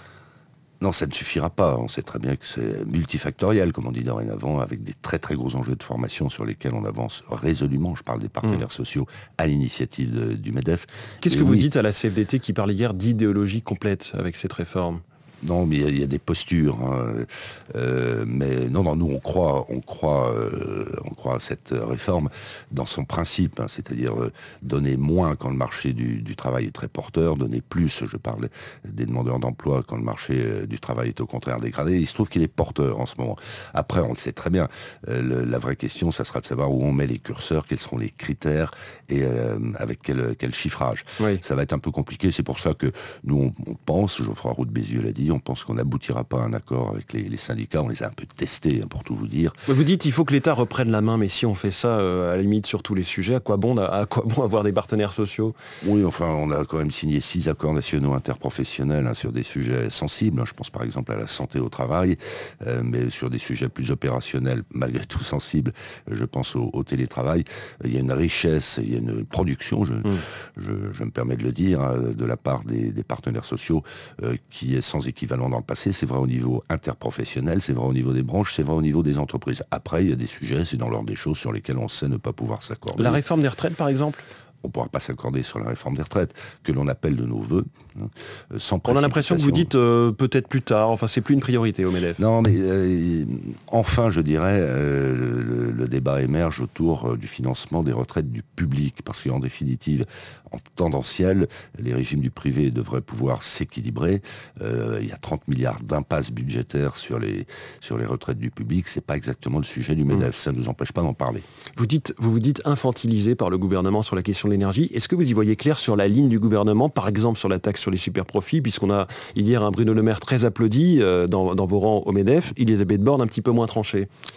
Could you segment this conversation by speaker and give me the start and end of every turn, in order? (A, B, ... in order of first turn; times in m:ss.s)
0:00.8-0:11.7 A
0:11.2-0:15.0 B
0:15.4-0:49.6 A
0:49.7-0:55.5 B
0:55.8-1:23.2 A
1:23.0-1:24.2 B
1:24.6-1:29.7 A
1:28.8-1:32.2 B
1:32.2-1:51.4 A
1:51.8-2:04.1 B